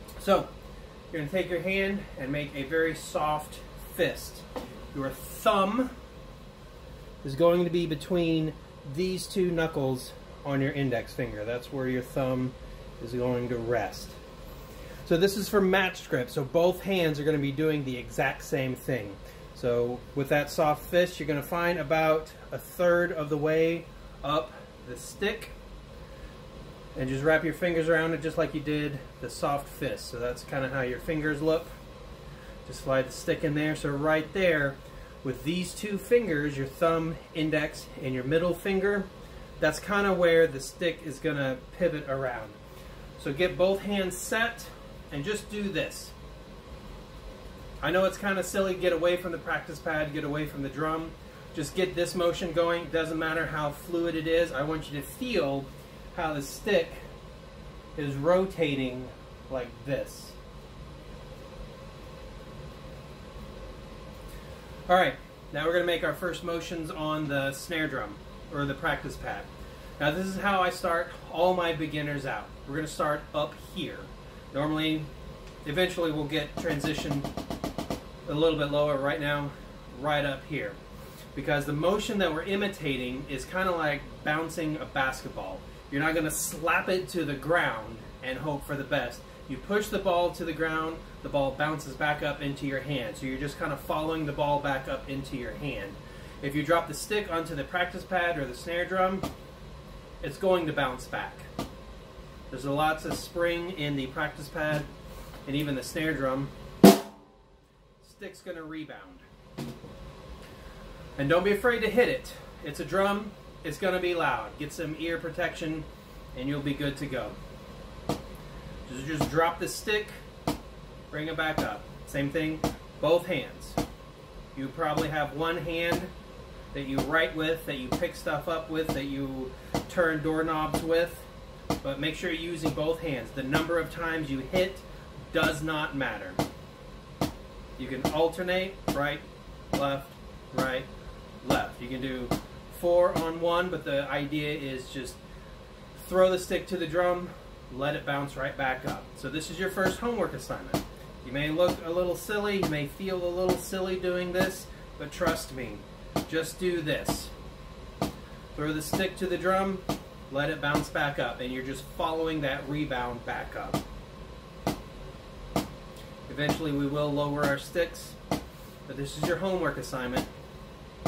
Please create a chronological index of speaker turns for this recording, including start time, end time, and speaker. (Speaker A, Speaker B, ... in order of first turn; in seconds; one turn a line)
Speaker A: 0.2-0.5
Speaker A: 1.1-5.9
Speaker A: 7.2-14.2
Speaker A: 15.1-25.6
Speaker A: 26.9-31.7
Speaker A: 32.6-39.1
Speaker A: 39.6-42.6
Speaker A: 43.2-46.1
Speaker A: 47.8-57.0
Speaker A: 58.0-60.4
Speaker A: 64.9-75.1
Speaker A: 75.7-77.3
Speaker A: 78.3-80.8
Speaker A: 81.3-99.3
Speaker A: 100.2-101.5
Speaker A: 102.5-104.9
Speaker A: 105.5-106.5
Speaker A: 108.0-109.2
Speaker A: 111.2-117.4
Speaker A: 118.9-120.1
Speaker A: 121.1-123.8
Speaker A: 124.5-126.1
Speaker A: 126.7-131.3
Speaker A: 131.8-136.4
Speaker A: 137.8-140.9
Speaker A: 141.4-145.2
Speaker A: 145.9-157.3
Speaker A: 158.6-163.8
Speaker A: 166.3-168.2
Speaker A: 168.9-170.3